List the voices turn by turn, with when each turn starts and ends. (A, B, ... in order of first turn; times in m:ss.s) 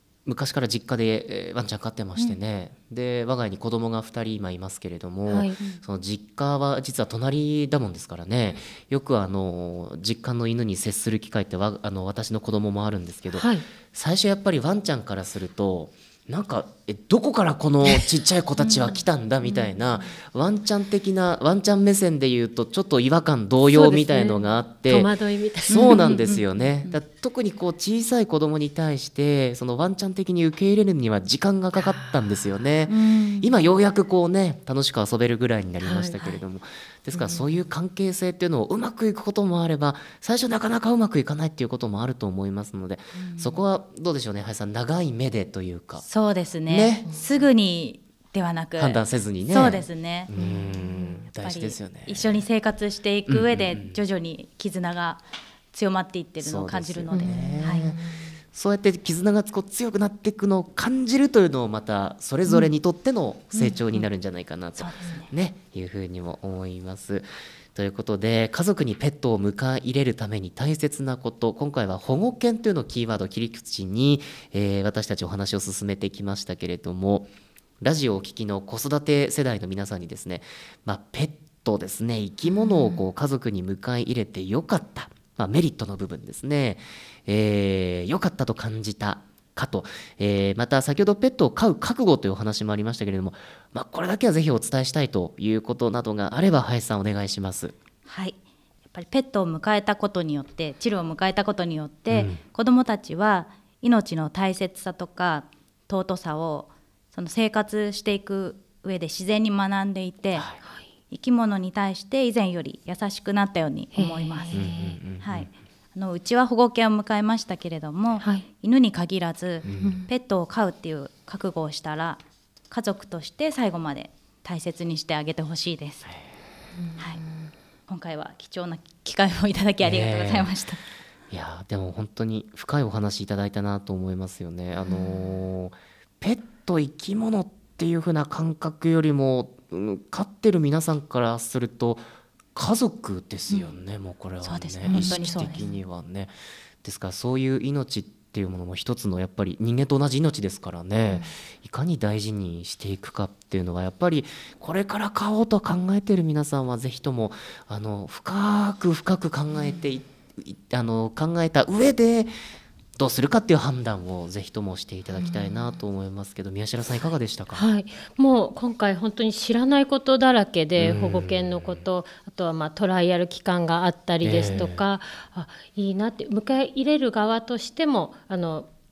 0:00.2-0:25.1 A
0:05.3-0:05.6 B
0:13.4-0:13.6 B
0:18.6-0:19.0 C
0:23.7-0:26.2 B
0:25.6-0:46.0 A
0:25.7-0:27.0 C
0:32.9-0:33.5 C
0:35.8-0:36.2 B
0:43.2-0:43.6 C
0:46.0-0:50.3 C
0:46.7-0:47.1 A
0:48.8-0:52.4 A
0:50.4-0:51.2 B
0:51.4-0:57.9 C
0:53.3-0:54.0 A
0:56.4-0:58.0 A
0:57.1-0:58.2 B
0:58.5-1:37.7 A
1:03.6-1:04.0 C
1:04.8-1:05.3 C
1:38.0-1:38.4 C
1:38.9-1:50.5 C
1:42.1-1:42.4 A
1:51.1-1:54.6 C
1:53.9-1:55.0 B
1:54.5-1:55.5 A
1:55.2-2:06.1 C
1:59.6-2:00.0 A
1:59.8-2:00.1 B
2:06.8-2:07.5 B
2:07.9-2:10.8 C
2:09.8-2:10.5 A
2:11.3-2:22.0 A
2:22.5-2:42.3 A
2:24.4-2:25.7 C
2:24.9-2:25.6 B
2:43.0-2:47.6 A
2:47.5-2:58.7 B
2:50.8-2:51.8 A
2:54.2-2:54.8 A